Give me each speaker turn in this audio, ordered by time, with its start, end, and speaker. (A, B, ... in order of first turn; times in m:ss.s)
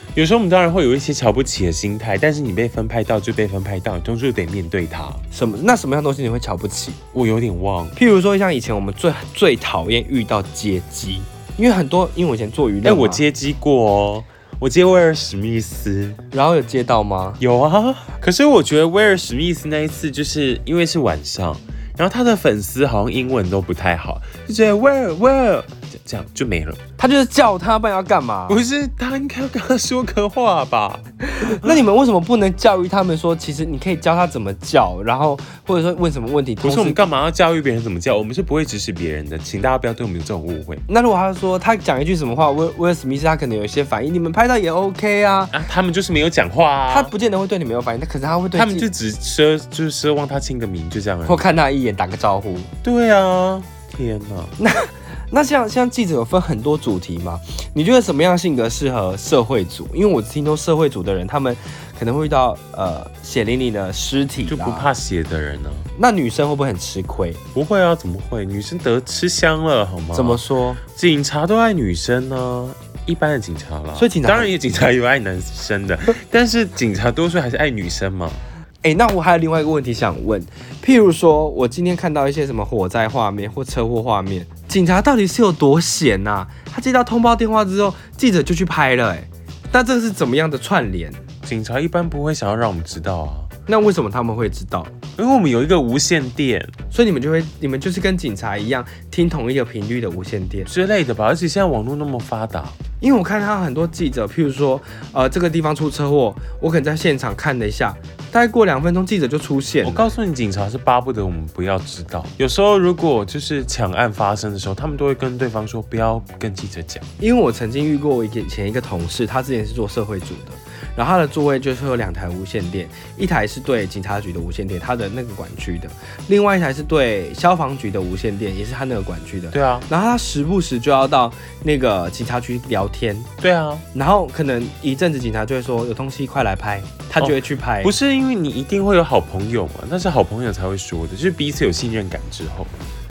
0:00.1-0:05.2 A
0:05.3-0:07.0 B
0:07.1-0:08.0 A
0:08.0-0:13.2 B
0:12.8-0:16.2 A
0:16.3-0:17.4 B
0:17.4-0:26.8 A
0:27.0-0:28.6 B
0:28.5-0:31.8 A
0:31.3-0:37.1 B
0:36.6-0:40.8 A
0:40.9-0:45.5 B
0:45.5-0:47.1 A
0:46.9-0:48.9 B
0:48.5-0:51.5 A
0:51.2-0:52.7 B
0:52.8-0:54.5 A
0:54.6-1:04.9 B
1:04.5-1:05.9 A
1:06.0-1:07.4 B
1:07.5-1:10.4 A
1:10.1-1:10.8 B
1:11.0-1:18.4 A
1:14.0-1:14.5 B
1:18.8-1:31.2 B
1:31.4-1:33.5 A
1:33.7-1:34.9 B
1:35.2-1:36.7 A
1:36.9-1:40.7 B
1:40.6-1:42.8 A
1:43.0-1:50.1 B
1:49.8-1:57.0 A
1:57.2-2:13.3 B
2:09.5-2:09.9 A
2:13.4-2:13.8 A
2:13.9-2:17.9 B
2:17.2-2:22.7 A